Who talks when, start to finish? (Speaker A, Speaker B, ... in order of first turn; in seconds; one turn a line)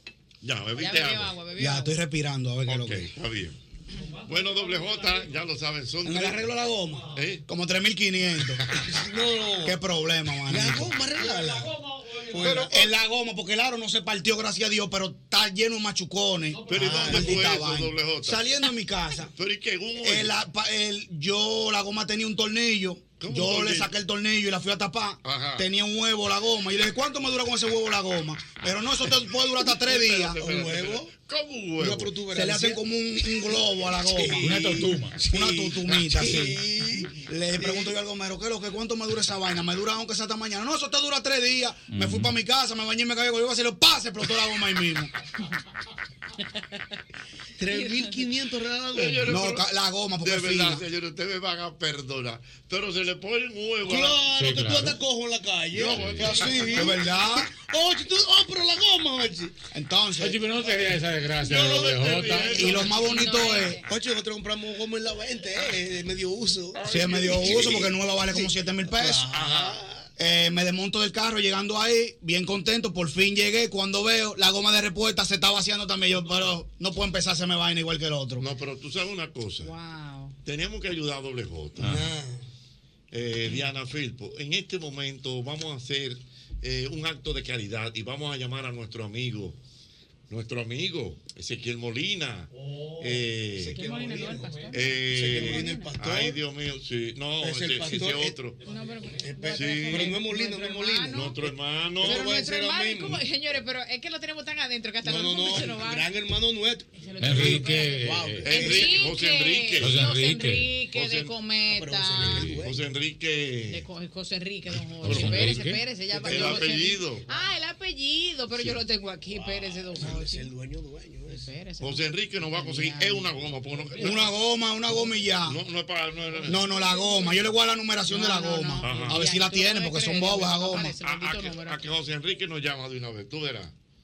Speaker A: 0.4-1.4
Speaker B: 0.8-2.0
Speaker C: 1.6-3.0
Speaker A: 2.6-3.5
Speaker A: 4.3-6.5
Speaker D: 4.3-5.2
Speaker C: 6.0-8.6
Speaker A: 7.1-7.4
Speaker E: 8.7-9.8
Speaker C: 9.6-11.0
Speaker E: 10.5-11.7
Speaker D: 11.2-12.3
Speaker E: 12.3-12.8
Speaker C: 12.4-19.3
Speaker A: 16.7-18.4
Speaker E: 16.7-17.4
Speaker A: 19.4-20.3
Speaker C: 20.0-30.4
Speaker A: 23.2-23.9
Speaker A: 25.2-25.7
Speaker A: 29.7-32.1
Speaker E: 30.4-31.1
Speaker E: 31.8-32.8
Speaker C: 32.3-36.6
Speaker E: 33.4-37.9
Speaker D: 34.4-35.2
Speaker C: 37.2-45.1
Speaker D: 41.9-42.3
Speaker E: 47.6-49.3
Speaker B: 47.7-48.1
Speaker A: 48.9-49.7
Speaker C: 49.2-50.8
Speaker A: 50.2-54.2
Speaker E: 53.9-59.5
Speaker D: 54.3-55.0
Speaker A: 55.7-56.9
Speaker C: 56.5-57.5
Speaker C: 59.7-60.4
Speaker D: 60.2-62.6
Speaker E: 61.4-62.6
Speaker A: 61.5-63.6
Speaker B: 62.5-63.8
Speaker C: 62.5-63.8
Speaker E: 63.9-66.8
Speaker A: 66.7-67.9
Speaker C: 66.8-69.3
Speaker E: 67.4-70.1
Speaker A: 69.3-69.8
Speaker C: 70.2-78.4
Speaker A: 78.4-79.7
Speaker B: 79.6-80.3
Speaker A: 80.4-82.0
Speaker E: 81.8-82.4
Speaker A: 83.1-89.6
Speaker A: 90.3-93.8
Speaker E: 93.5-96.4
Speaker B: 93.7-94.8
Speaker A: 94.7-98.6
Speaker B: 95.5-95.9
Speaker E: 97.4-98.3
Speaker B: 98.7-101.3
Speaker E: 99.2-103.2
Speaker A: 99.5-100.2
Speaker A: 101.0-102.2
Speaker B: 102.1-106.1
Speaker E: 105.0-108.9
Speaker B: 107.0-112.3
Speaker D: 107.2-108.5
Speaker A: 108.4-110.2
Speaker D: 109.8-110.7
Speaker A: 110.9-111.3
Speaker E: 111.7-112.8
Speaker A: 112.2-113.8
Speaker D: 112.3-112.6
Speaker B: 113.7-120.5
Speaker D: 115.0-115.8
Speaker A: 115.0-117.2
Speaker E: 116.1-116.6
Speaker E: 119.3-121.5
Speaker B: 121.4-123.3
Speaker A: 121.8-124.3
Speaker E: 123.7-124.1
Speaker C: 124.0-125.6
Speaker A: 125.5-126.7
Speaker C: 126.5-131.0
Speaker B: 126.7-127.4
Speaker B: 128.0-131.8
Speaker A: 128.8-129.2
Speaker A: 131.0-133.7